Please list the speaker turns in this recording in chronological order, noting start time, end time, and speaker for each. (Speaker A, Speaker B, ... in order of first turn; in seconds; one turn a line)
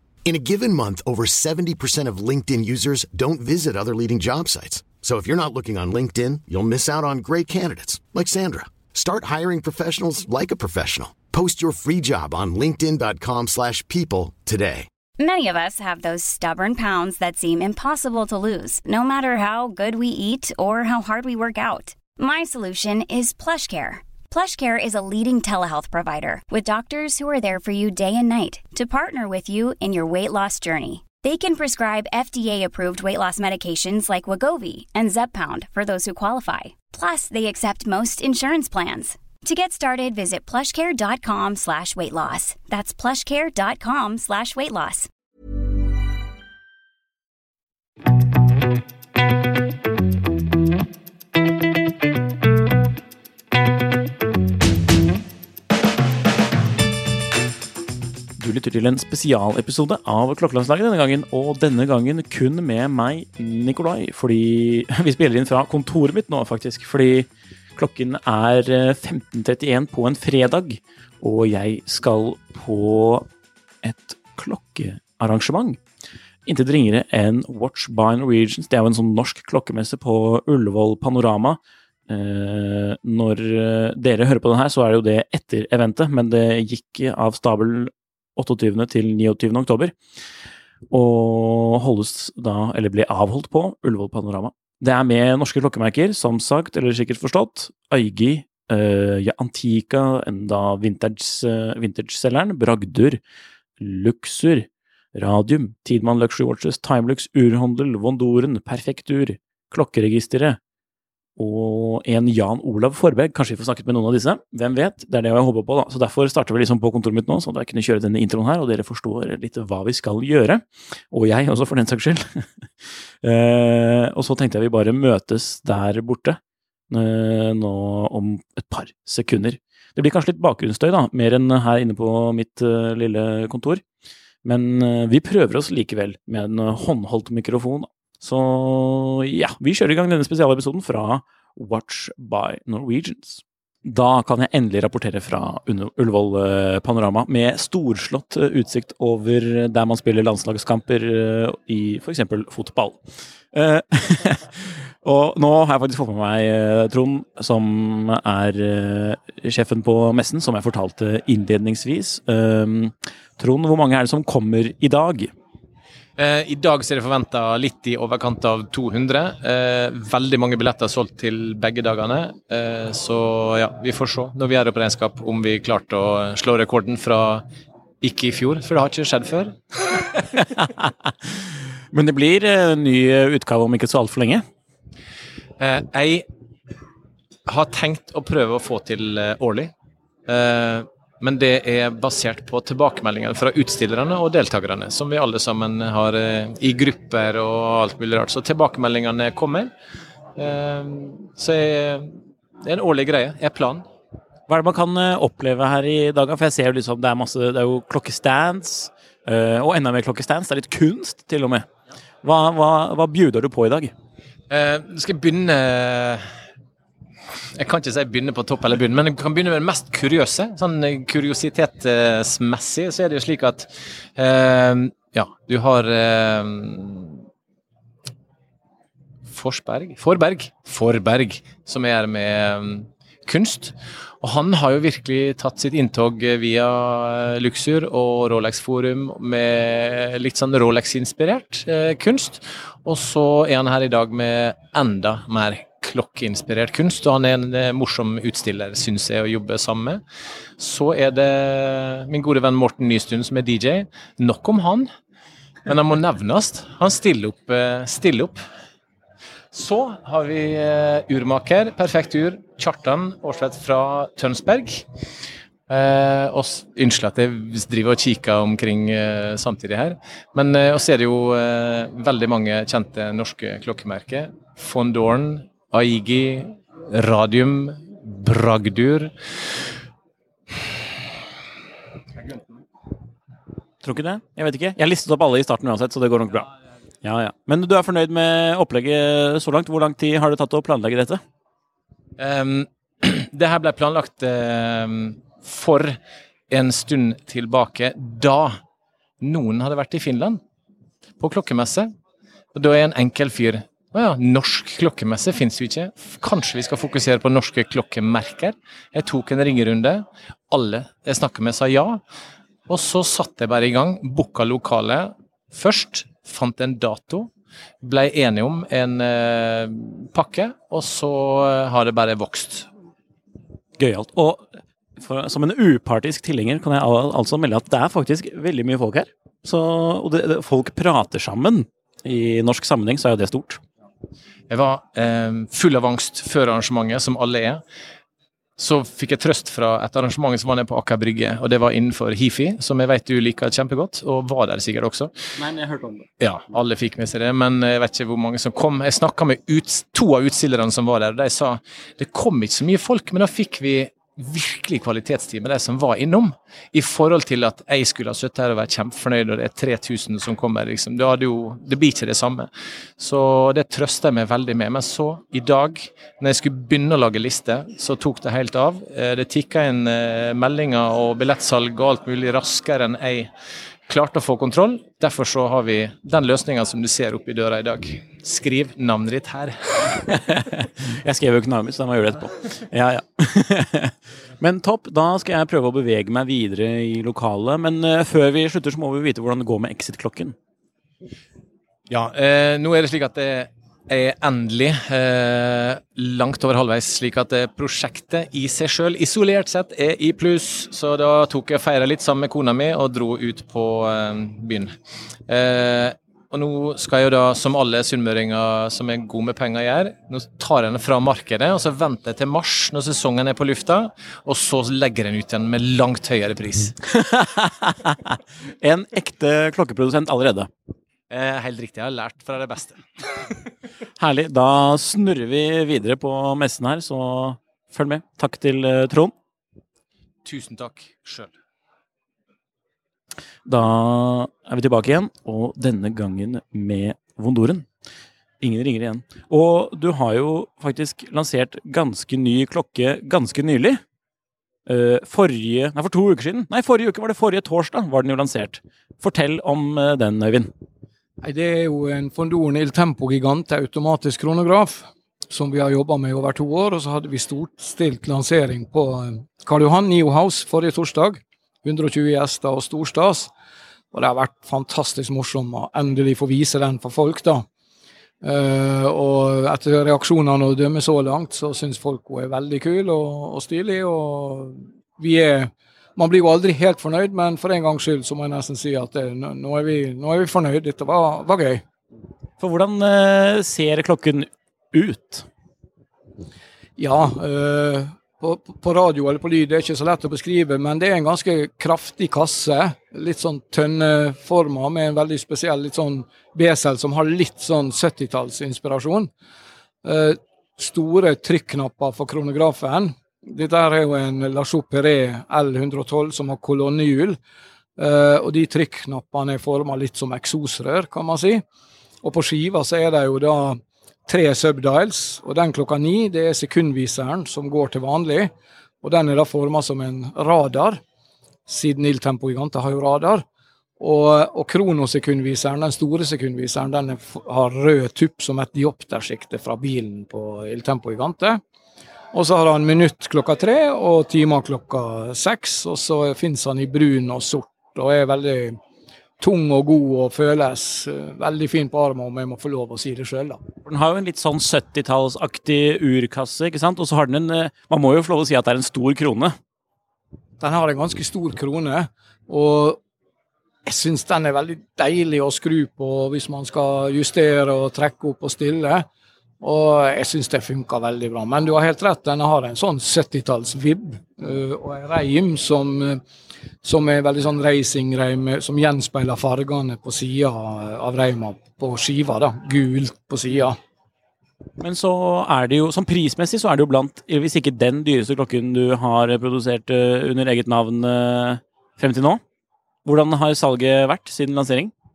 Speaker A: 0.2-14.9
Speaker B: 15.2-45.1
Speaker C: 58.4-73.3
Speaker C: 73.8-75.8
Speaker C: 76.5-89.9
Speaker C: 90.9-103.2
Speaker C: 103.8-110.6
Speaker C: 111.4-122.5
Speaker C: 123.2-126.4
Speaker C: 126.9-133.8
Speaker C: 134.4-153.0
Speaker C: 153.5-165.3
Speaker D: 166.2-177.4
Speaker D: 178.0-179.6
Speaker C: 180.5-184.4
Speaker D: 185.6-186.3
Speaker D: 187.5-189.7
Speaker D: 190.3-199.7
Speaker D: 200.3-203.8
Speaker C: 204.5-211.7
Speaker C: 212.2-213.9
Speaker D: 214.5-216.2
Speaker D: 217.6-227.2
Speaker D: 229.3-250.0
Speaker D: 250.6-254.9
Speaker D: 255.7-258.4
Speaker D: 259.5-264.9
Speaker D: 265.7-279.1
Speaker C: 283.8-286.5
Speaker C: 287.0-291.2
Speaker D: 292.2-298.6
Speaker D: 299.2-300.4
Speaker D: 301.2-301.9
Speaker D: 302.5-312.0
Speaker D: 312.7-317.3
Speaker D: 317.8-322.7
Speaker C: 323.8-333.6
Speaker D: 334.5-337.6
Speaker D: 338.6-345.1
Speaker C: 345.4-346.1
Speaker D: 346.2-373.3
Speaker D: 373.9-380.0
Speaker C: 380.2-390.4
Speaker D: 391.9-404.7
Speaker D: 405.3-416.7
Speaker C: 416.9-420.5
Speaker D: 421.1-423.0
Speaker C: 424.0-429.1
Speaker D: 430.2-431.3
Speaker C: 433.4-437.6
Speaker C: 438.4-443.8
Speaker C: 444.7-450.5
Speaker E: 451.2-463.3
Speaker E: 463.9-467.4
Speaker E: 468.2-481.6
Speaker C: 482.4-485.2
Speaker E: 486.8-499.1
Speaker E: 499.8-507.2
Speaker E: 507.8-511.4
Speaker E: 512.0-520.8
Speaker E: 521.5-523.2
Speaker E: 523.8-531.4
Speaker E: 532.1-538.6
Speaker E: 539.2-543.4
Speaker C: 543.6-549.4
Speaker E: 550.4-552.8
Speaker E: 553.6-558.9
Speaker E: 559.4-566.0
Speaker E: 566.6-573.6
Speaker C: 574.6-582.2
Speaker C: 582.8-584.7